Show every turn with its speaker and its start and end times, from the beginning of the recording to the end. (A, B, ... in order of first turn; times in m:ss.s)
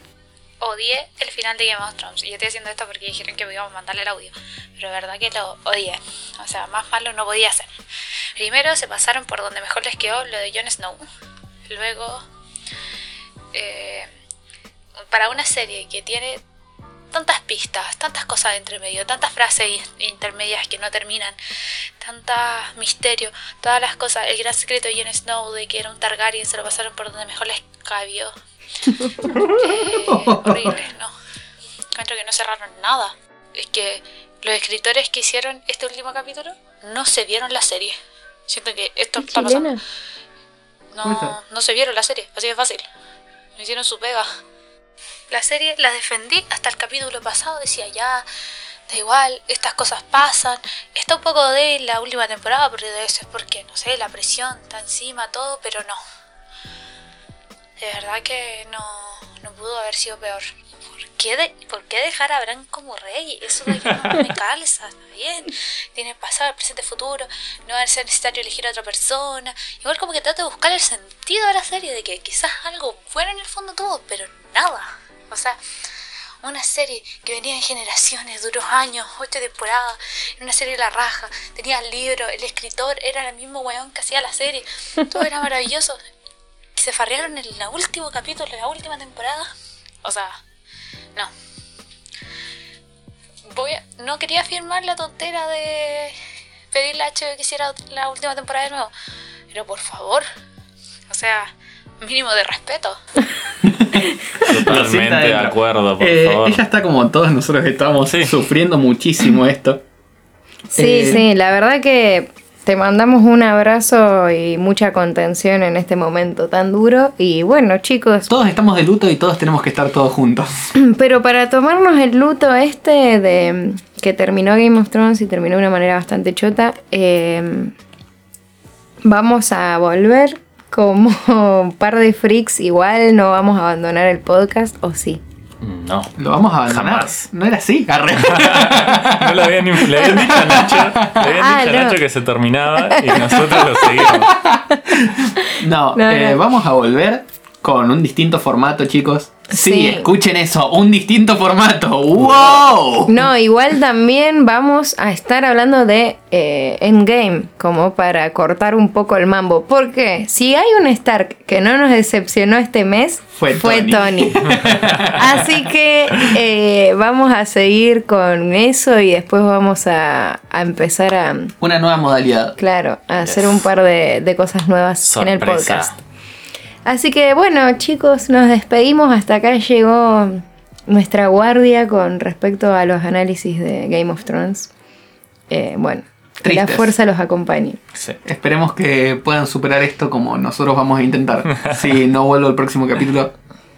0:00.6-0:07.7 A
0:08.4-0:11.1 A
0:11.7-0:12.3 A
0:13.5-0:14.1 A
0:15.1-0:16.4 A
0:17.1-0:21.4 A
0:22.0-0:28.4 A
0:29.2-0:30.8 B
0:29.4-0:31.1 A
0:32.0-0:38.0 A
0:38.5-0:39.8 A
0:39.2-0:39.8 C
0:40.9-0:42.8 A
0:41.0-0:41.4 B
0:43.6-0:44.3 A
0:45.3-0:48.3 A
0:48.9-0:56.0 A
0:57.8-1:00.5 A
1:01.0-1:15.6 A
1:16.4-1:26.0 A
1:26.8-1:29.5 A
1:30.0-1:30.4 A
1:33.5-1:36.2 A
1:36.7-1:38.9 A
1:39.5-1:40.3 A
1:41.1-1:41.5 A
1:42.0-1:43.0 A
1:43.6-1:49.8 B
1:44.5-1:46.6 D
1:48.1-1:48.3 D
1:50.7-1:58.3 C
1:50.8-1:51.2 B
1:58.3-2:00.5 B
2:00.8-2:07.7 C
2:09.0-2:15.2 C
2:15.6-2:16.1 D
2:16.2-2:21.2 B
2:16.6-2:17.3 D
2:18.2-2:24.3 D
2:21.4-2:22.0 C
2:24.1-2:33.2 B
2:26.0-2:26.4 C
2:29.5-2:30.1 C
2:32.2-2:32.4 D
2:33.1-2:51.5 C
2:43.4-2:45.4 B
2:44.7-2:45.1 D
2:51.6-2:52.6 B
2:52.6-2:56.0 C
2:53.2-2:53.6 D
2:55.0-2:56.0 D
2:56.8-3:04.7 C
3:05.5-3:07.8 C
3:06.4-3:06.9 B
3:08.2-3:13.3 B